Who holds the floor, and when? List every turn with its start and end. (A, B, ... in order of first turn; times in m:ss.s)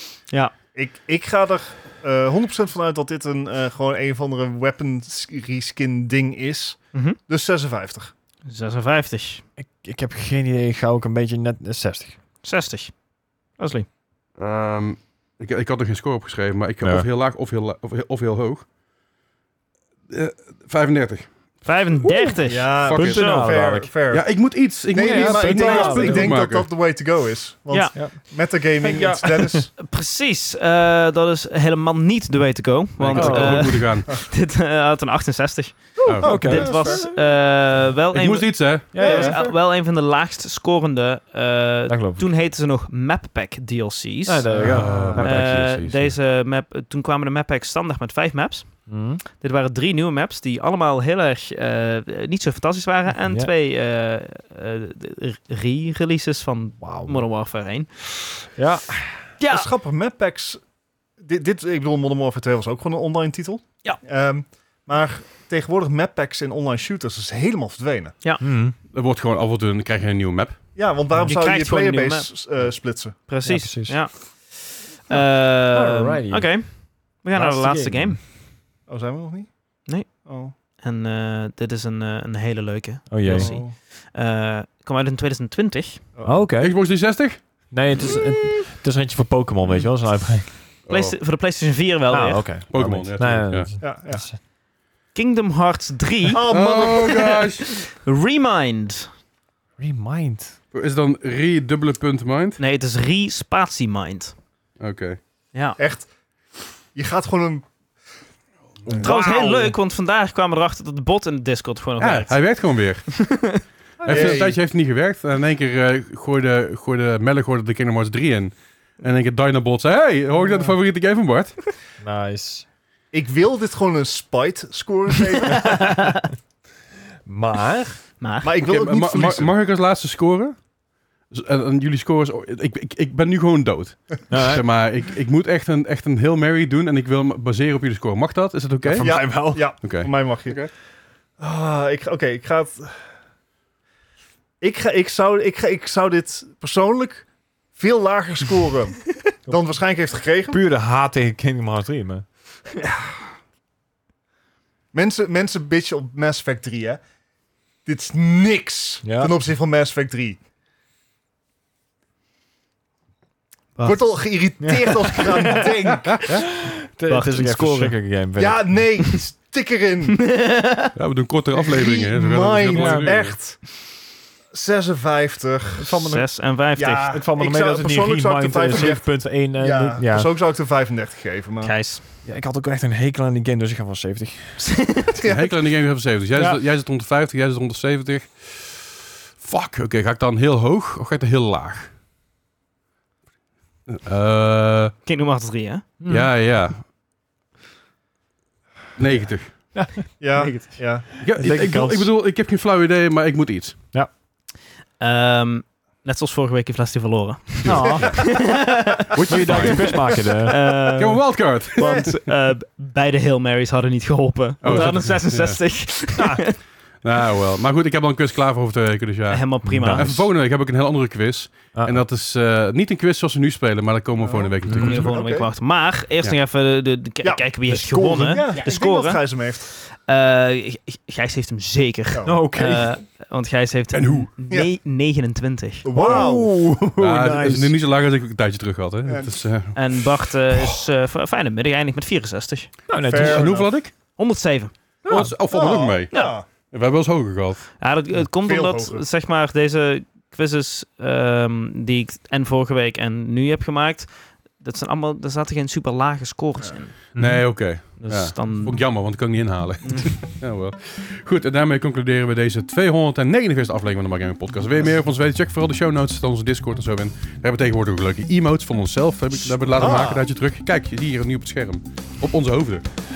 0:00.3-0:00.5 A
0:00.7-0:08.1 B
0:06.9-0:07.2 A
0:08.4-0:09.4 A
0:09.6-0:12.2 C
0:12.4-0:13.9 A
0:14.4-0:18.7 D
0:16.8-0:17.1 C
0:20.1-0:21.6 D
0:21.6-0:23.4 A
0:22.0-0:22.4 C
0:22.4-0:29.7 B
0:22.8-0:23.2 D
0:22.9-0:23.9 C
0:24.1-0:26.7 D
0:24.9-0:26.4 C
0:27.7-0:28.0 A
0:27.9-0:29.6 C
0:29.7-0:57.9 A
0:33.0-0:34.1 D
0:33.1-0:33.9 C
0:36.0-0:37.3 C
0:36.0-0:36.5 D
0:36.2-0:37.1 B
0:38.1-0:39.4 D
0:38.9-0:39.4 C
0:39.0-0:39.5 B
0:41.9-0:42.3 C
0:44.2-0:45.6 C
0:44.5-0:46.2 D
0:48.9-0:49.2 C
0:56.8-0:57.2 C
0:58.6-0:59.3 C
0:59.4-0:59.7 A
0:59.5-1:00.6 B
1:01.2-1:08.2 B
1:08.4-1:08.7 C
1:08.9-1:10.7 D
1:10.7-1:13.2 B
1:11.2-1:12.3 A
1:13.1-1:18.2 A
1:13.4-1:14.1 C
1:15.7-1:16.8 C
1:17.3-1:18.2 C
1:18.9-1:20.5 B
1:19.9-1:26.0 A
1:23.1-1:23.6 C
1:23.2-1:23.7 B
1:26.1-1:26.4 B
1:26.2-1:26.8 C
1:26.6-1:27.4 D
1:27.7-1:30.6 C
1:30.9-1:31.2 D
1:30.9-1:32.5 A
1:32.1-1:34.4 C
1:32.7-1:33.7 D
1:33.8-1:34.2 B
1:35.1-1:36.4 A
1:36.3-1:37.4 B
1:36.5-1:37.7 D
1:37.6-1:39.1 A
1:39.8-1:40.6 C
1:40.7-1:42.6 D
1:42.6-1:44.3 A
1:44.8-1:45.2 D
1:45.5-1:45.8 A
1:45.8-1:46.1 B
1:46.9-1:47.7 B
1:48.8-1:49.7 B
1:49.0-1:52.6 A
1:52.0-2:01.7 D
1:53.1-1:53.6 A
1:54.0-1:54.4 C
1:54.0-1:54.6 B
2:02.0-2:02.7 C
2:03.1-2:06.0 B
2:05.4-2:06.3 A
2:07.2-2:08.0 C
2:08.2-2:08.5 A
2:08.4-2:09.5 B
2:08.6-2:10.6 D
2:11.3-2:20.7 D
2:14.3-2:14.7 C
2:18.8-2:19.7 C
2:19.0-2:20.7 B
2:21.4-2:23.0 B
2:24.6-2:30.6 B
2:30.5-2:32.2 C
2:34.9-2:37.0 B
2:37.8-2:40.4 B
2:39.0-2:39.3 C
2:43.8-2:45.7 A
2:43.8-2:46.3 B
2:46.1-2:46.4 D
2:46.4-2:48.8 C
2:47.0-2:48.0 A
2:48.4-2:50.3 B
2:50.2-2:50.9 A
2:50.9-2:53.4 D
2:51.7-2:53.9 B
2:52.7-2:53.2 C
2:54.5-3:01.7 B
2:55.8-2:57.1 A
2:57.1-3:00.3 C
3:01.6-3:02.0 A
3:02.2-3:04.9 C
3:04.7-3:05.1 A
3:05.2-3:05.5 B
3:05.2-3:11.9 D
3:06.3-3:06.6 C
3:13.9-3:14.9 D
3:15.0-3:15.9 A
3:16.0-3:16.3 C
3:16.1-3:16.8 D
3:19.0-3:19.8 D
3:19.7-3:22.1 C
3:20.2-3:21.1 B
3:20.4-3:20.7 A
3:21.2-3:23.8 D
3:25.0-3:29.9 A
3:27.6-3:28.5 D
3:27.6-3:28.2 C
3:27.7-3:28.0 B
3:29.1-3:30.1 D
3:29.3-3:31.0 C
3:30.4-3:36.6 A
3:31.0-3:32.1 D
3:31.8-3:32.1 B
3:34.6-3:35.7 D
3:37.0-3:45.1 D
3:39.3-3:40.2 A
3:39.6-3:40.2 C
3:41.7-3:42.0 C
3:44.2-3:45.5 B
3:44.6-3:45.0 C
3:44.7-3:55.9 A
3:47.2-3:49.7 B
3:52.2-3:53.0 C
3:53.9-3:54.3 D
3:55.8-3:56.5 B
3:55.9-3:57.7 C
3:57.0-3:59.8 D
3:59.1-3:59.4 B
3:59.7-4:02.7 A
4:02.9-4:03.5 C
4:03.0-4:03.7 B
4:03.1-4:03.9 D
4:04.2-4:04.7 A
4:05.0-4:07.7 D
4:05.0-4:05.3 C
4:05.5-4:06.4 B
4:06.1-4:06.4 A
4:07.8-4:17.1 A
4:08.4-4:09.0 B
4:17.1-4:17.5 C
4:17.1-4:32.8 D
4:18.0-4:18.9 A
4:19.8-4:20.2 A
4:29.7-4:30.2 B